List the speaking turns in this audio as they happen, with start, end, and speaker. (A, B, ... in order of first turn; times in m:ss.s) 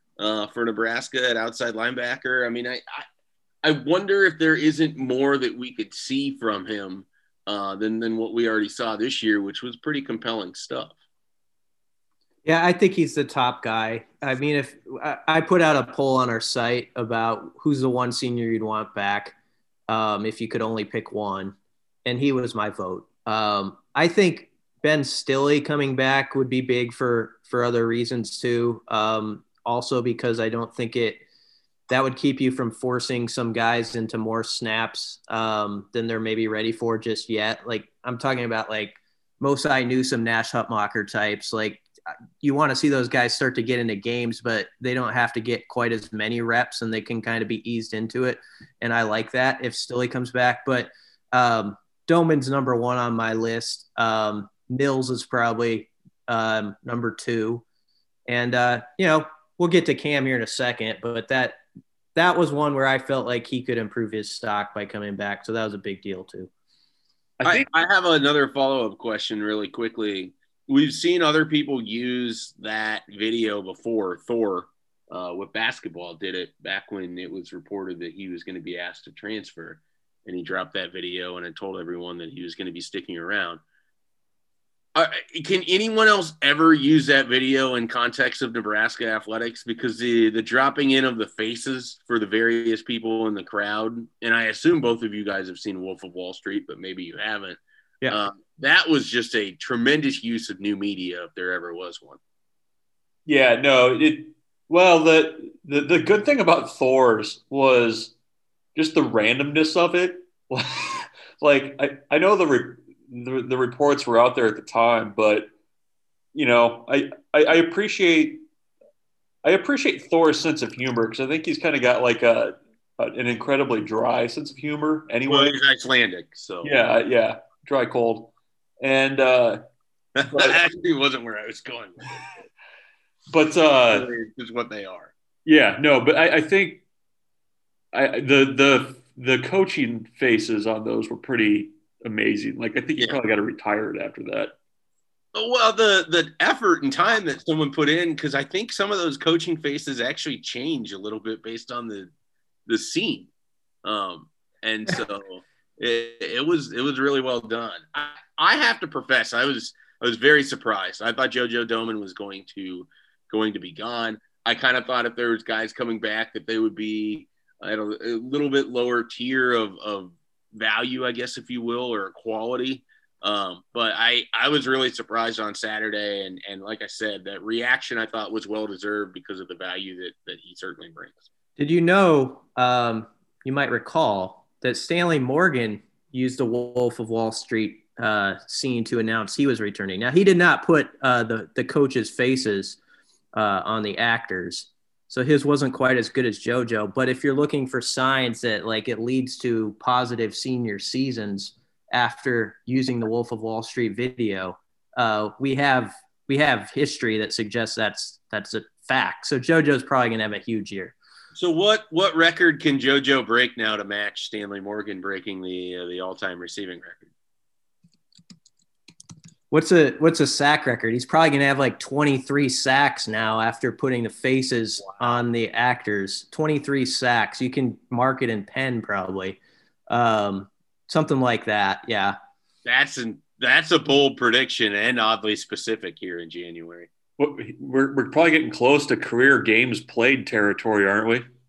0:00.2-0:03.0 A
0:03.6-0:10.9 A
0:12.4-0:19.3 B
0:19.9-0:31.2 B
0:31.9-0:41.8 B
0:42.4-0:57.6 B
0:58.3-1:01.6 B
1:02.1-1:06.5 B
1:07.4-1:07.7 C
1:07.4-1:23.6 A
1:24.9-1:42.2 A
1:43.2-1:48.1 C
1:48.7-1:55.5 C
1:56.3-1:58.4 C
1:59.4-2:05.6 C
2:05.3-2:06.7 A
2:06.6-2:09.6 C
2:10.2-2:12.2 A
2:10.3-2:10.6 C
2:13.3-2:14.1 C
2:13.9-2:15.1 A
2:15.4-2:16.8 C
2:17.9-2:24.5 C
2:25.3-2:32.1 A
2:32.7-2:33.3 A
2:33.8-3:01.3 A
3:01.6-3:12.8 B
3:13.3-3:30.9 B
3:31.3-3:37.1 A
3:39.5-3:49.4 B
3:44.8-3:45.1 A
3:49.9-3:52.2 B
3:52.6-3:56.9 A
3:57.2-4:01.2 C